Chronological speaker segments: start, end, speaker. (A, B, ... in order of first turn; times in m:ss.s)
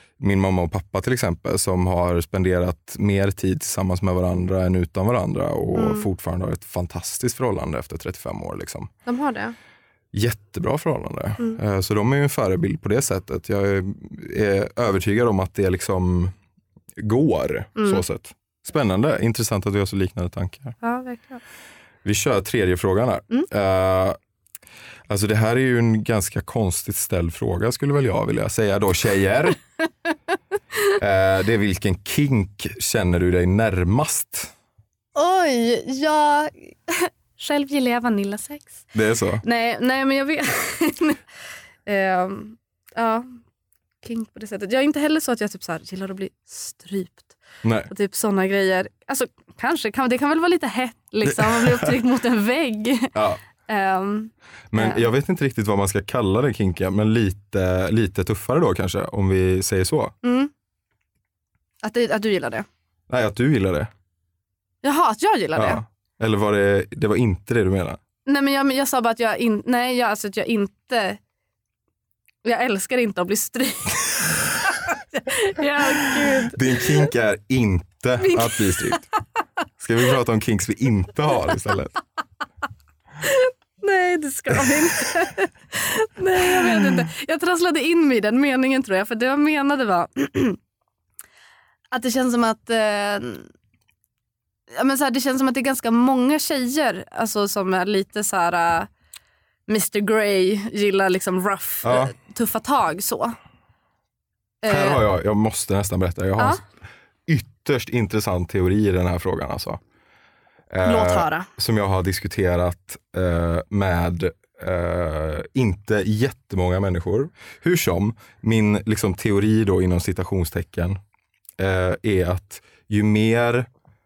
0:00.2-0:08.9 A
0:05.7-0:06.1 B
0:09.0-0:09.6 B
0:10.1-0:16.3 A
0:17.0-0:20.8 A
0:17.8-0:18.0 B
0:20.8-0:21.4 B
0:22.0-0:24.2 A
0:25.1-0:29.6 A
0:31.0-0:34.5 A
0:35.1-0:38.8 B
0:38.9-0:39.4 A
0:39.4-0:41.2 B
0:41.8-0:43.4 B
0:44.0-0:47.4 B
0:47.6-0:47.9 A
0:47.9-0:53.1 B
0:51.2-0:51.9 A
0:53.1-0:53.4 A
0:53.7-0:55.0 B
0:54.7-1:00.1 A
1:00.2-1:00.5 B
1:01.8-1:02.6 B
1:03.1-1:03.9 A
1:04.8-1:05.8 B
1:05.5-1:08.0 A
1:08.2-1:11.2 B
1:12.4-1:17.1 B
1:16.5-1:19.1 A
1:18.2-1:19.0 B
1:19.8-1:21.9 A
1:23.2-1:30.6 B
1:31.9-1:33.5 B
1:34.7-1:38.9 B
1:39.7-1:43.3 B
1:41.8-1:42.1 A
1:44.6-1:45.0 B
1:44.7-1:46.6 A
1:47.3-1:49.8 A
1:50.7-2:01.0 A
1:50.8-1:51.5 B
2:01.6-2:03.7 A